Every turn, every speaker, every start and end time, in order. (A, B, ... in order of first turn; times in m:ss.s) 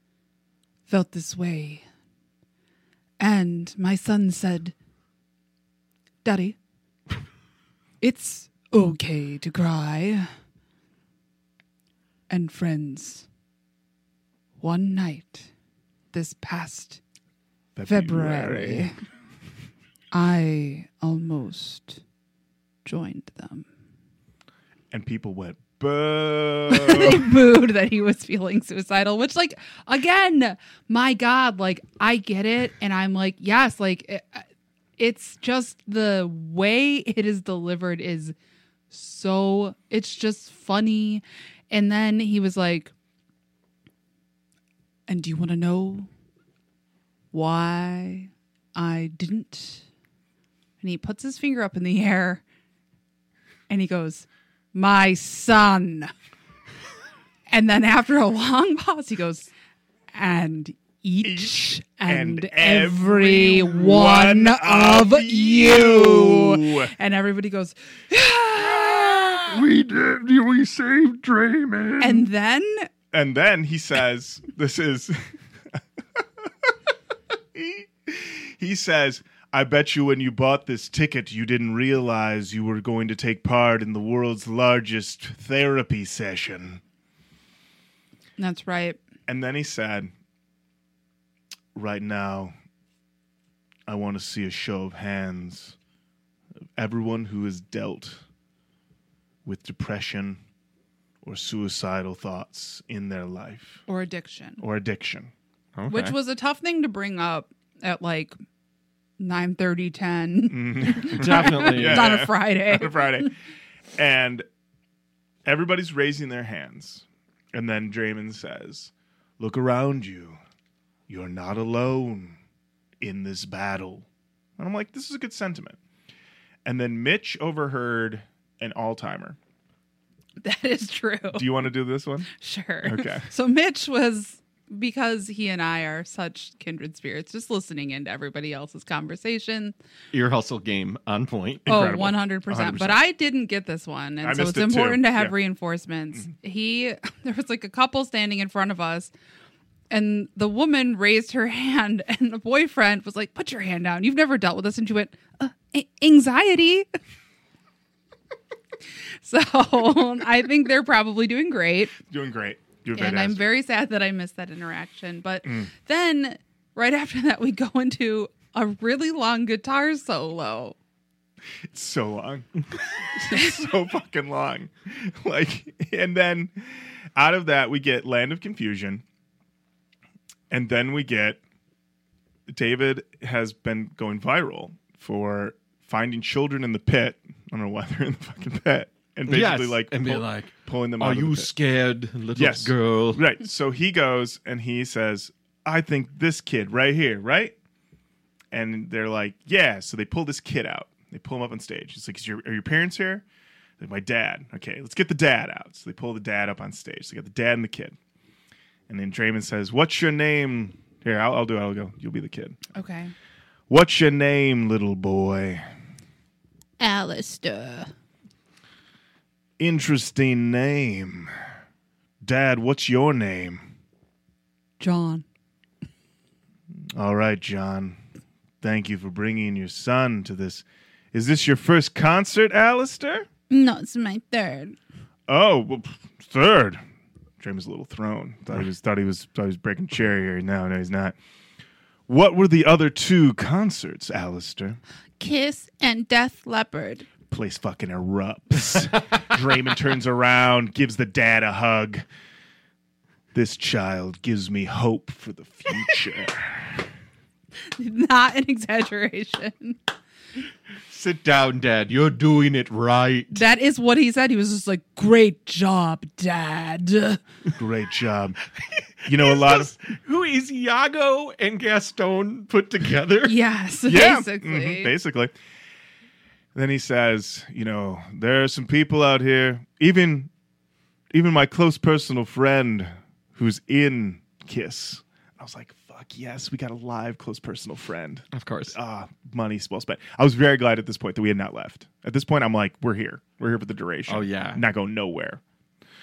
0:00.9-0:01.8 A
0:03.2-0:04.7 A
0:06.2-0:06.6 A
0:08.0-0:10.3 A
0:12.3-0:13.3 A
0:14.6-0:15.5 A
0:16.1-0:17.0 A
0:17.8-0:18.9 B
0:17.9-0:19.0 A
0:20.1-0:22.0 A
0:22.8-0:23.6 A
0:24.9-0:27.3 B
0:26.7-0:34.4 A
0:35.0-0:38.3 A
0:38.9-0:42.9 A
0:45.1-0:46.1 A
0:47.3-0:49.8 A
0:50.8-0:52.4 A
0:53.7-0:56.1 A
0:57.5-0:59.5 A
1:00.1-1:09.5 A
1:01.2-1:06.9 B
1:08.9-1:09.2 B
1:09.4-1:12.2 C
1:12.0-1:12.9 A
1:13.1-1:16.5 B
1:17.5-1:26.8 B
1:28.4-1:29.0 A
1:29.3-1:30.1 B
1:31.7-1:32.5 B
1:33.9-1:35.8 B
1:36.8-1:38.2 B
1:39.4-1:40.4 B
1:41.2-1:43.8 B
1:43.9-1:44.6 A
1:44.6-1:45.3 B
1:45.8-1:46.1 C
1:45.9-1:48.3 A
1:49.2-1:53.3 A
1:50.5-1:53.3 B
1:51.1-1:52.1 C
1:54.0-1:54.4 B
1:55.4-2:00.4 B
2:01.1-2:02.4 B
2:03.0-2:04.1 B
2:04.6-2:05.8 B
2:06.6-2:09.4 B
2:10.4-2:11.5 A
2:11.3-2:12.3 B
2:12.3-2:19.7 A
2:12.8-2:13.2 B
2:20.1-2:21.6 C
2:21.6-2:23.0 B
2:21.6-2:29.1 A
2:24.2-2:25.3 B
2:29.9-2:36.9 A
2:39.2-2:42.0 A
2:42.0-2:43.4 B
2:42.9-2:50.8 A
2:45.4-2:45.7 B
2:51.7-2:59.0 B
3:00.5-3:01.4 B
3:02.5-3:11.5 B
3:09.3-3:13.2 C
3:12.3-3:17.5 B
3:18.5-3:23.2 B
3:23.8-3:28.0 B
3:28.9-3:32.6 B
3:32.7-3:33.1 A
3:33.7-3:35.6 B
3:36.8-3:37.9 A
3:39.6-3:41.3 B
3:42.2-3:43.6 B
3:44.8-3:45.2 A
3:46.9-3:48.0 B
3:48.6-3:53.3 B
3:53.5-3:54.8 A
3:55.3-3:56.8 B
3:57.4-4:01.2 B
4:02.1-4:04.8 B
4:05.2-4:07.1 A
4:07.3-4:12.0 B
4:13.3-4:16.9 B
4:17.8-4:19.8 A
4:20.9-4:23.4 C
4:23.3-4:27.2 A
4:27.5-4:28.4 B
4:29.0-4:29.7 B
4:29.0-4:33.4 C
4:33.2-4:34.9 A
4:33.8-4:35.3 B
4:36.5-4:40.3 B
4:41.1-4:55.4 B
4:48.3-4:48.8 C
4:54.1-4:54.6 C